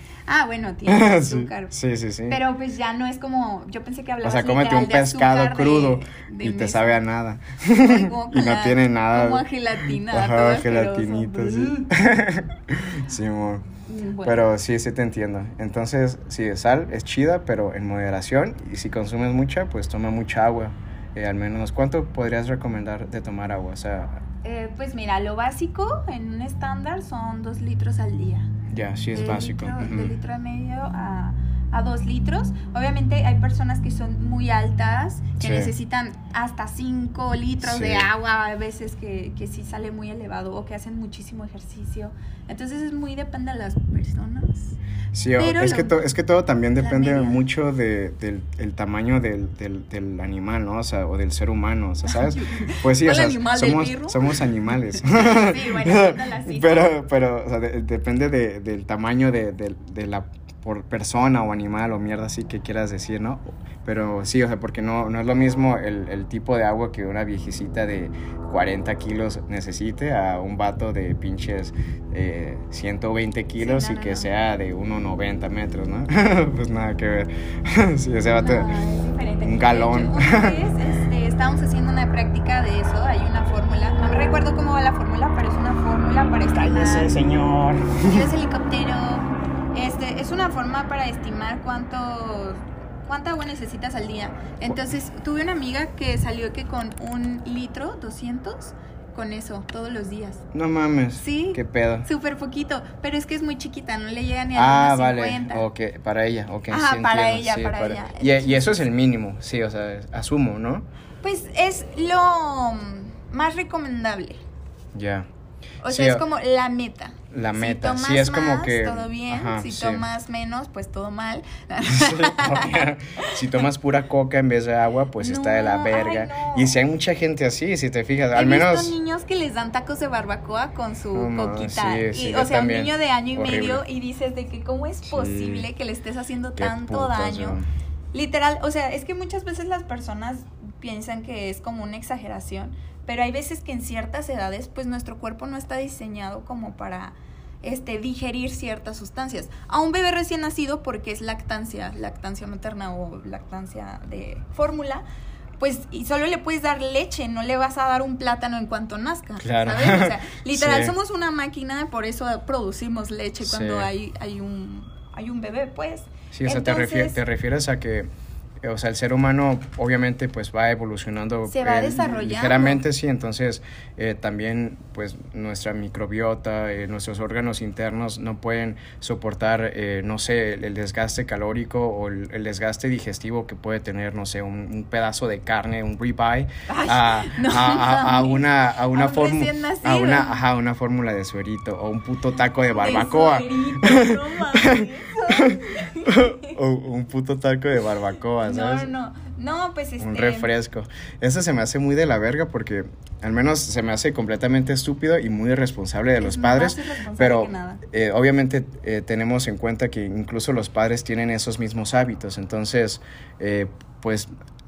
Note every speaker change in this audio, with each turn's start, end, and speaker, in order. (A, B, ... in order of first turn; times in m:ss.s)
0:00.3-0:01.7 A
0:00.8-0:02.4 B
0:02.3-0:07.0 A
0:04.2-0:13.6 B
0:07.8-0:11.9 A
0:13.9-0:14.4 A
0:14.2-0:24.2 B
0:24.4-0:28.5 A
0:28.7-0:30.2 B
0:29.1-0:44.8 A
0:35.4-0:35.7 B
0:37.6-0:38.1 B
0:45.1-1:18.7 B
0:45.4-0:46.1 A
0:46.8-0:47.4 A
0:52.1-0:57.0 A
1:13.6-1:14.3 A
1:18.4-1:27.1 A
1:19.4-1:20.6 B
1:26.5-1:28.3 B
1:28.0-1:40.4 A
1:40.5-1:42.1 B
1:41.2-1:45.6 A
1:44.5-1:50.9 B
1:46.7-1:48.9 A
1:51.2-1:54.4 A
1:54.9-1:55.3 B
1:55.8-2:03.6 A
1:55.8-1:56.2 B
1:57.3-2:00.0 B
2:01.8-2:08.9 B
2:05.2-2:06.8 A
2:08.3-2:17.6 A
2:11.1-2:13.8 B
2:15.0-2:15.7 B
2:16.6-2:17.6 B
2:18.1-2:35.0 A
2:35.6-2:47.2 A
2:39.4-2:40.9 B
2:43.4-2:43.9 B
2:46.3-2:48.1 B
2:48.6-3:18.9 B
2:51.4-2:52.8 A
3:06.7-3:10.4 A
3:12.7-3:16.6 A
3:18.4-3:20.5 A
3:20.0-3:34.3 B
3:26.2-3:27.8 A